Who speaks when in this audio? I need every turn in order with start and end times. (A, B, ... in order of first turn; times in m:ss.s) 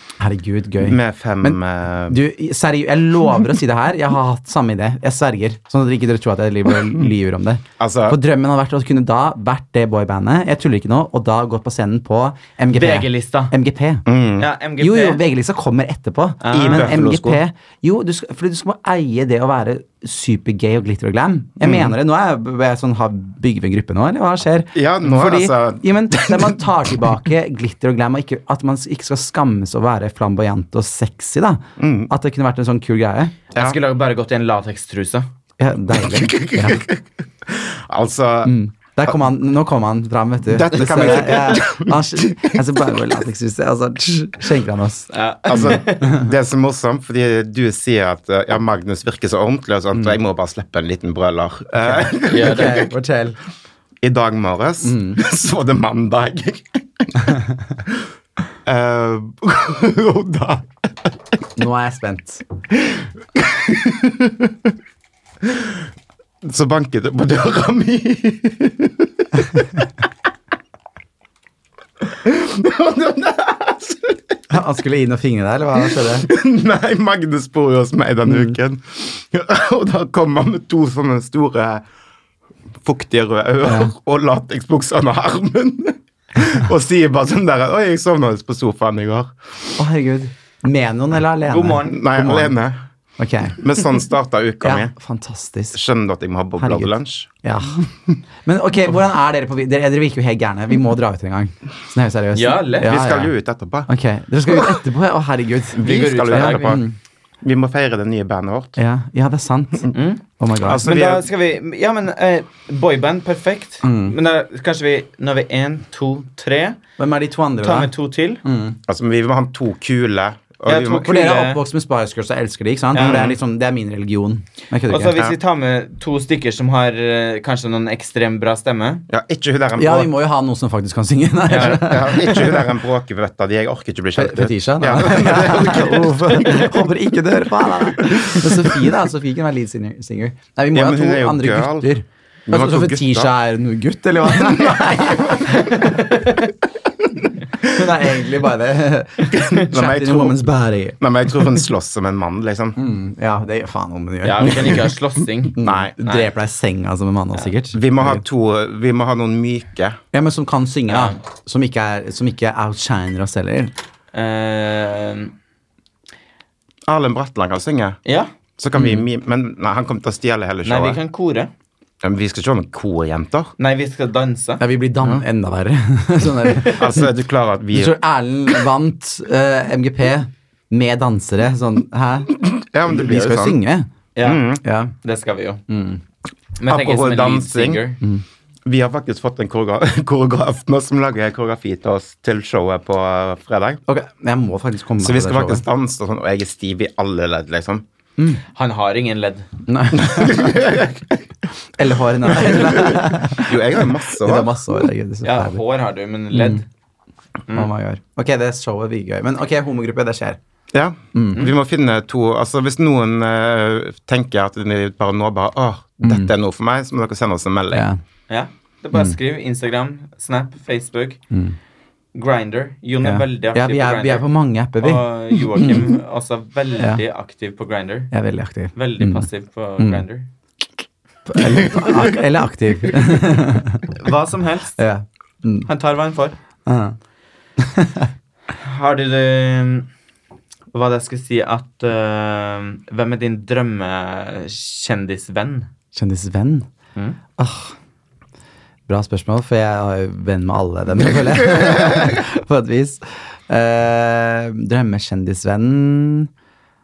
0:00.2-0:14.0 A
0:00.8-0:02.2 B
0:07.8-0:08.2 B
0:12.7-0:13.5 C
0:14.0-0:14.5 B
0:14.4-0:15.2 C
0:14.8-0:33.3 A
0:16.4-0:16.9 C
0:16.5-0:17.4 B
0:21.6-0:21.9 B
0:24.7-0:26.6 B
0:31.8-0:32.1 B
0:33.5-0:35.3 C
0:35.6-0:36.8 A
0:36.0-0:38.5 B
0:38.4-0:45.1 A
0:40.5-0:42.8 B
0:40.8-0:41.4 C
0:45.1-0:46.1 C
0:45.5-0:52.9 B
0:51.8-0:53.4 A
0:52.3-0:52.9 C
0:54.0-0:57.3 B
0:54.8-0:55.2 A
0:58.6-1:00.7 B
1:01.6-1:02.4 A
1:02.8-1:04.7 B
1:05.4-1:05.8 B
1:06.4-1:09.8 B
1:12.1-1:14.4 B
1:14.5-1:16.3 A
1:15.8-1:21.8 B
1:18.3-1:18.5 A
1:22.8-1:29.3 B
1:23.6-1:23.9 A
1:29.8-1:32.5 A
1:31.5-1:32.0 C
1:31.8-1:32.8 B
1:33.2-1:33.6 A
1:33.5-1:34.9 B
1:34.6-1:35.8 A
1:35.7-1:37.3 B
1:36.6-1:37.9 A
1:38.4-1:43.3 A
1:42.3-1:42.9 C
1:42.8-1:43.9 B
1:43.9-1:47.0 A
1:44.4-1:44.8 B
1:45.7-1:46.8 B
1:45.8-1:46.8 C
1:47.4-1:48.8 B
1:48.8-1:50.8 A
1:49.9-1:50.2 C
1:50.6-1:51.3 B
1:50.8-1:56.8 C
1:53.8-1:54.1 A
1:57.0-1:57.9 A
1:57.6-1:58.4 C
1:58.4-1:58.8 A
1:58.9-2:01.1 B
2:00.6-2:01.6 C
2:01.0-2:05.2 A
2:02.9-2:03.2 C
2:03.0-2:03.4 B
2:04.9-2:09.0 C
2:09.1-2:10.1 B
2:09.8-2:12.6 A
2:11.5-2:12.4 C
2:11.5-2:16.9 B
2:14.2-2:25.8 A
2:18.0-2:18.6 B
2:20.7-2:21.9 B
2:22.5-2:23.3 B
2:24.2-2:25.7 B
2:25.7-2:26.4 C
2:27.6-2:31.0 A
2:29.3-2:30.4 B
2:31.0-2:32.8 B
2:32.8-2:34.8 A
2:34.2-2:36.3 C
2:35.5-2:38.2 A
2:35.6-2:35.9 B
2:37.7-2:40.0 B
2:40.1-2:43.7 A
2:40.9-2:41.2 C
2:44.1-2:45.3 C
2:46.9-2:48.0 B
2:48.0-2:48.3 C
2:48.6-2:51.0 B
2:50.6-2:51.5 C
2:52.0-2:53.5 B
2:53.6-2:54.6 C
2:54.6-2:57.1 A
2:56.6-2:58.0 B
2:57.7-3:03.9 A
3:02.3-3:03.6 B
3:04.2-3:05.6 C
3:04.2-3:04.6 B
3:04.6-3:04.9 A
3:05.7-3:06.0 A
3:06.6-3:08.0 C
3:06.6-3:07.8 B
3:08.6-3:13.8 B
3:13.9-3:15.6 A
3:15.0-3:17.8 B
3:18.5-3:19.5 C
3:19.7-3:20.7 A
3:19.9-3:21.2 B
3:21.8-3:25.6 A
3:22.3-3:24.8 B
3:25.2-3:26.6 C
3:26.3-3:26.6 A
3:27.5-3:30.4 A
3:30.7-3:37.8 B
3:31.1-3:31.4 A
3:36.0-3:36.3 A
3:37.7-3:38.0 A
3:38.3-3:41.2 C
3:41.3-3:41.6 A
3:42.1-3:44.3 C
3:43.0-3:45.0 A
3:44.8-3:48.1 C
3:45.6-3:45.9 A
3:46.8-3:47.0 A
3:48.1-3:49.3 A
3:48.7-3:50.3 C
3:49.8-3:50.0 A
3:51.3-3:53.9 A
3:53.9-3:54.8 C
3:54.8-3:55.7 A
3:55.7-3:56.4 C
3:56.6-3:57.0 A
3:57.6-3:58.1 A
3:58.6-3:59.9 C
4:00.7-4:05.7 C
4:05.9-4:06.7 A
4:07.4-4:07.7 A
4:08.9-4:16.3 A